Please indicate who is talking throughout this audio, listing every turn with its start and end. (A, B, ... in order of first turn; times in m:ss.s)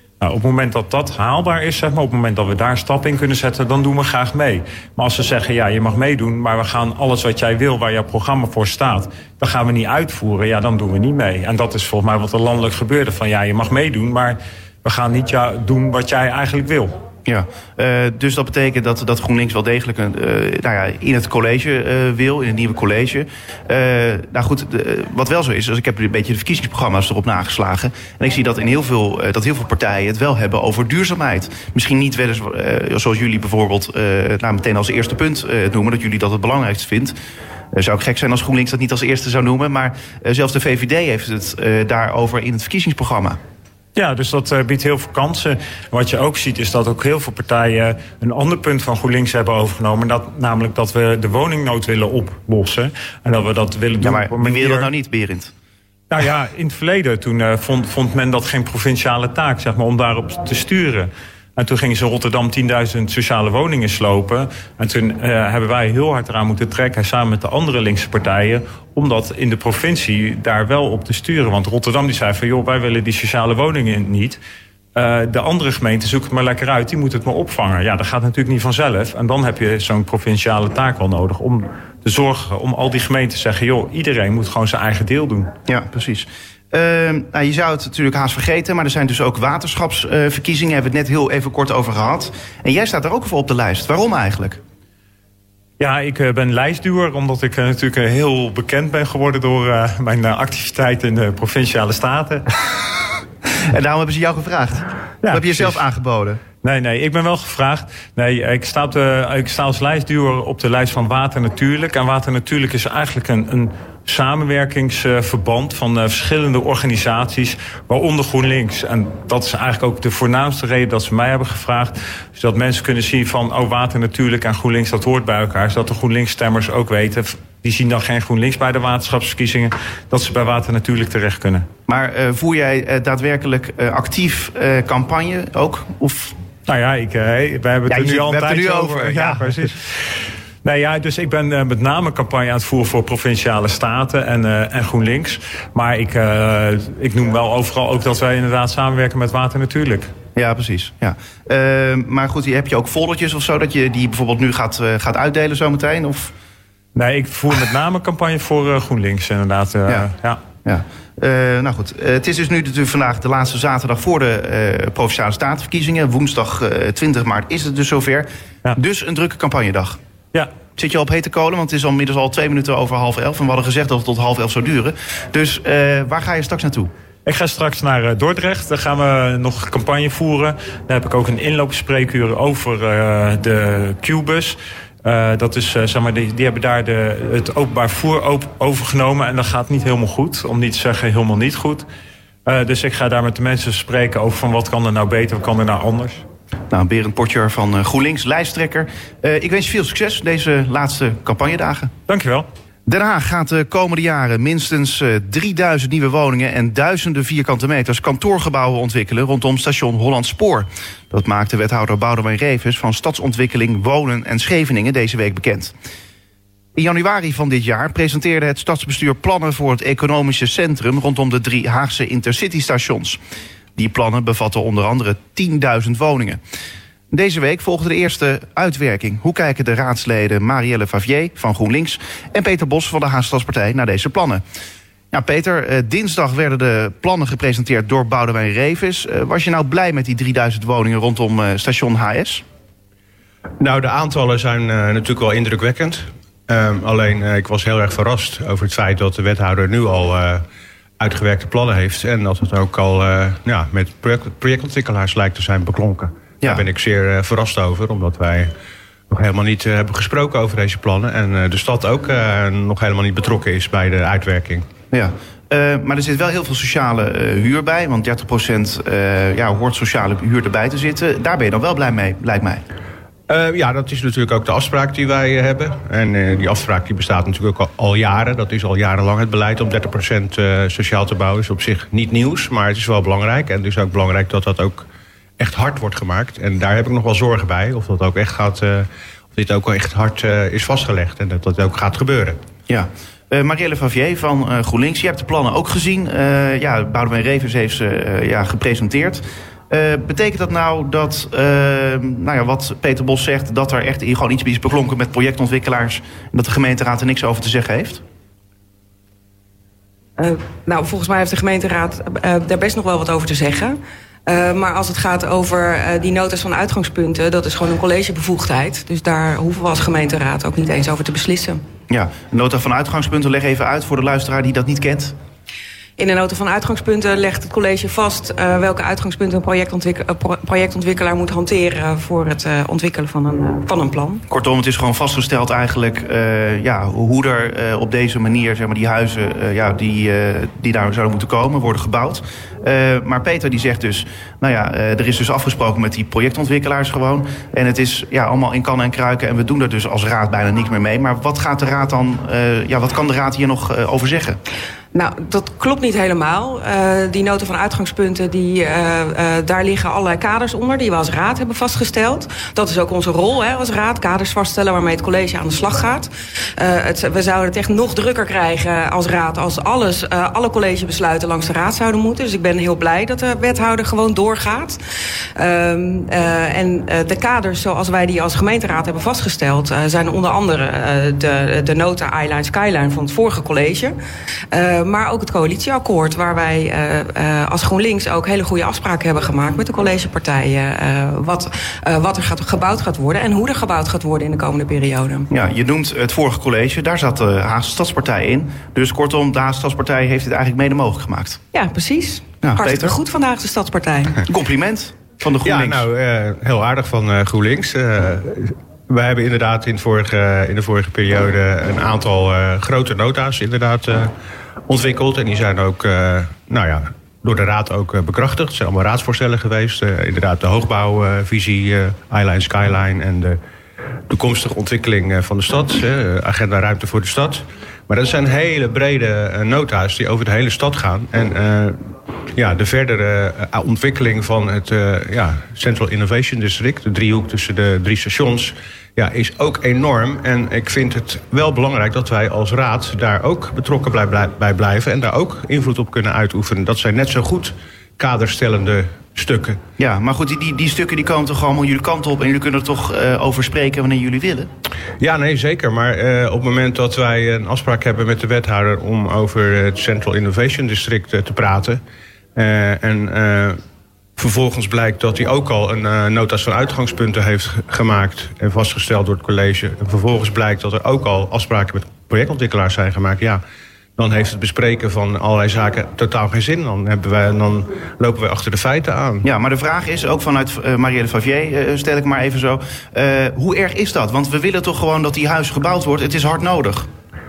0:00.2-0:16.9 A
0:17.2-0:37.2 B
0:37.7-0:43.4 B
0:44.0-0:54.9 A
0:54.0-0:55.5 B
0:56.1-1:14.4 A
1:14.9-1:25.5 A
1:25.7-1:34.6 B
1:35.8-1:42.4 A
1:43.6-1:46.4 B
1:45.2-1:45.8 A
1:46.6-2:11.7 A
2:11.9-2:16.4 B
2:16.6-2:20.1 A
2:17.9-2:19.6 B
2:20.6-2:30.1 A
2:30.4-2:36.3 B
2:36.9-2:40.4 A
2:40.6-2:50.0 B
2:50.8-2:56.9 B
2:57.2-3:11.8 A
3:12.4-3:16.2 A
3:16.7-3:21.9 B
3:22.1-3:22.4 A
3:22.9-3:35.7 B
3:36.7-3:43.2 B
3:43.8-3:46.4 B
3:47.1-3:54.4 B
3:55.1-4:02.4 B
4:03.6-4:10.4 C
4:11.0-4:18.5 C
4:19.1-4:24.6 C
4:24.9-4:32.6 B
4:33.3-4:44.8 C
4:45.4-4:52.4 C
4:52.7-5:08.0 B
5:10.2-5:21.6 D
5:21.9-5:25.1 B
5:26.0-5:34.2 D
5:34.3-5:54.4 B
5:54.9-6:14.8 D
6:15.4-6:24.0 D
6:24.5-6:35.3 D
6:35.3-6:41.4 B
6:41.5-6:44.2 D
6:42.4-6:43.0 B
6:44.2-6:45.9 B
6:45.4-6:54.1 C
6:54.7-7:03.4 C
7:04.1-7:11.8 C
7:12.3-7:29.6 C
7:29.8-7:34.5 B
7:35.0-7:41.8 C
7:42.3-7:43.6 C
7:44.2-7:53.4 C
7:54.0-7:59.2 C
7:59.2-8:06.9 B